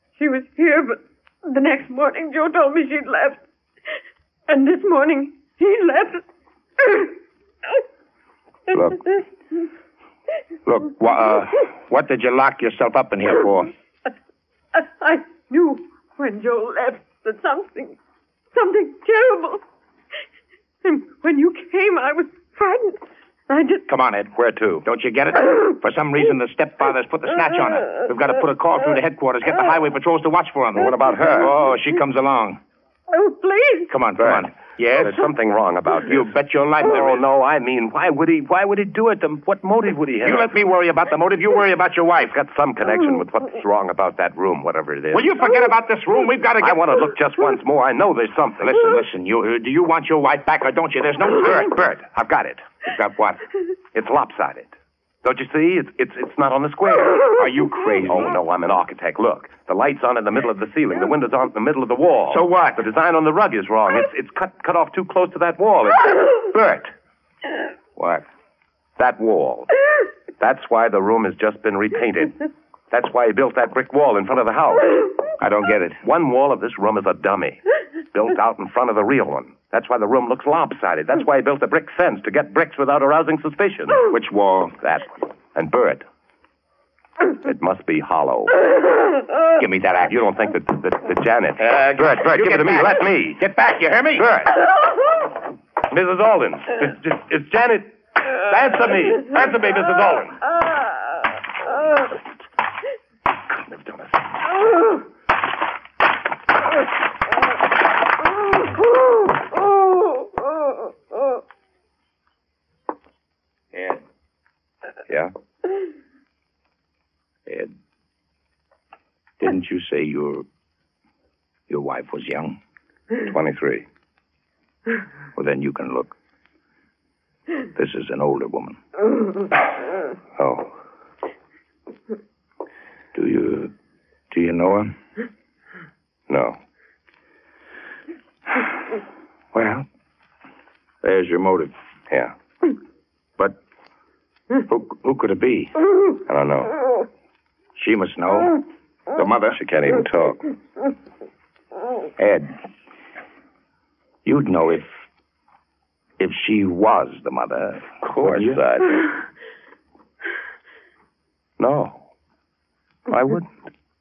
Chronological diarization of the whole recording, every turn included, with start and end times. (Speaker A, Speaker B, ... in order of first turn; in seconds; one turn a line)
Speaker A: 0.2-3.4
Speaker A: 4.5-6.2
Speaker A: 6.8-7.1
Speaker B: 8.7-9.1
Speaker B: 10.7-13.7
Speaker A: 14.8-18.0
Speaker A: 18.5-19.6
Speaker A: 20.8-23.9
Speaker B: 23.9-32.6
Speaker C: 24.3-24.9
Speaker C: 30.8-31.5
Speaker A: 33.1-33.9
Speaker B: 33.9-35.2
Speaker C: 34.2-40.5
Speaker B: 36.0-37.2
Speaker B: 40.2-42.3
Speaker C: 42.2-45.3
Speaker B: 45.1-46.8
Speaker C: 46.6-48.8
Speaker B: 48.6-51.7
Speaker C: 51.4-52.7
Speaker B: 52.8-53.4
Speaker C: 53.9-57.4
Speaker B: 57.3-58.3
Speaker C: 58.1-66.9
Speaker B: 62.3-62.9
Speaker B: 68.0-68.2
Speaker C: 69.0-69.7
Speaker C: 70.4-75.1
Speaker B: 75.4-76.0
Speaker C: 76.0-77.6
Speaker C: 78.1-84.1
Speaker B: 84.1-84.8
Speaker C: 84.8-86.0
Speaker C: 87.4-88.6
Speaker B: 89.6-90.2
Speaker C: 90.0-93.4
Speaker B: 91.7-94.3
Speaker C: 94.2-94.6
Speaker C: 95.9-100.4
Speaker C: 103.5-104.2
Speaker B: 113.7-114.0
Speaker B: 117.5-117.7
Speaker B: 119.4-120.5
Speaker B: 121.7-122.6
Speaker C: 123.2-123.8
Speaker B: 125.3-126.2
Speaker B: 127.8-128.8
Speaker C: 130.4-130.7
Speaker B: 133.1-133.7
Speaker B: 134.3-134.9
Speaker C: 136.3-136.6
Speaker B: 139.5-139.9
Speaker B: 141.0-141.7
Speaker B: 144.6-145.8
Speaker C: 146.3-146.7
Speaker B: 147.8-149.6
Speaker C: 149.6-150.5
Speaker B: 152.2-152.6
Speaker B: 154.2-154.9
Speaker B: 156.2-158.6
Speaker C: 158.0-159.1
Speaker C: 161.6-162.0
Speaker C: 163.1-163.6